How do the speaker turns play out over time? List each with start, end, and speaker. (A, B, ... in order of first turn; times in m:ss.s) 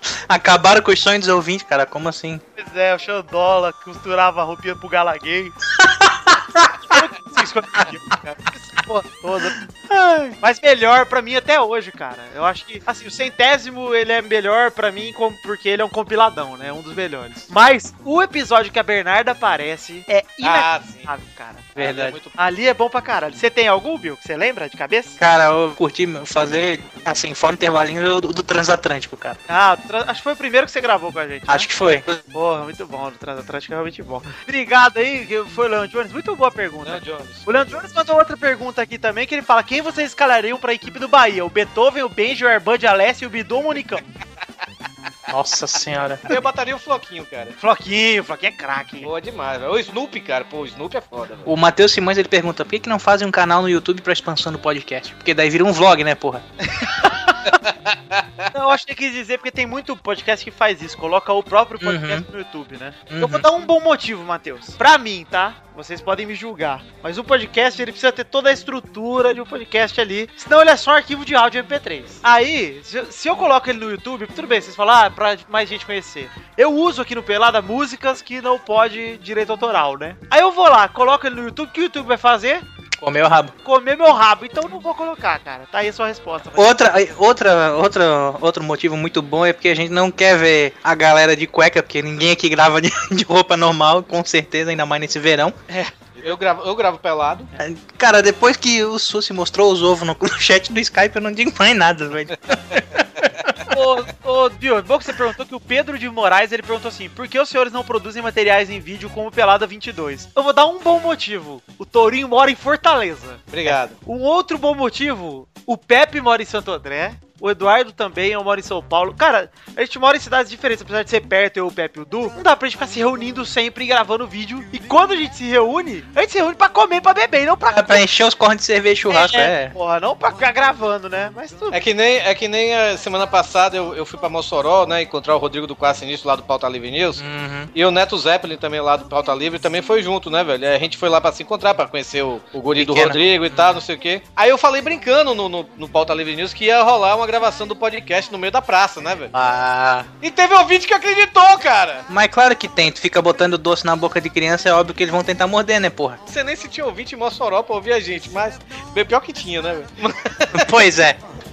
0:00.3-0:02.4 A
0:02.6-0:05.5 B
0:05.8-0:06.7 A
0:06.8-0:09.6 B
0:10.0-0:10.3 A
0:10.4-0:25.2 B
0:20.4-0:21.1 C
0:21.8-0:22.4 C
0:25.2-0:29.4 A
0:29.5-0:31.7 B
0:31.5-0:32.2 A
0:32.3-0:44.0 B
0:36.8-0:37.8 C
0:45.3-0:46.3 A
0:46.3-0:47.6 C
0:47.6-0:49.1 B
0:49.0-0:51.5 C
0:51.4-0:56.4 A
0:56.7-0:57.5 B
0:57.7-0:58.4 C
0:58.5-1:22.6 B
1:01.8-1:02.2 A
1:03.1-1:03.4 A
1:23.0-1:23.5 A
1:23.6-1:26.7 B
1:26.6-1:35.6 A
1:36.2-1:37.5 C
1:37.6-1:42.8 A
1:43.7-2:08.0 B
1:53.5-1:54.0 C
2:07.7-2:09.7 A
2:09.1-2:11.8 B
2:11.7-2:17.2 C
2:17.2-2:17.7 A
2:17.7-2:29.3 C
2:22.8-2:23.6 A
2:29.3-2:30.1 A
2:30.2-2:32.0 C
2:32.1-2:36.2 A
2:36.2-2:40.7 C
2:40.5-2:41.2 A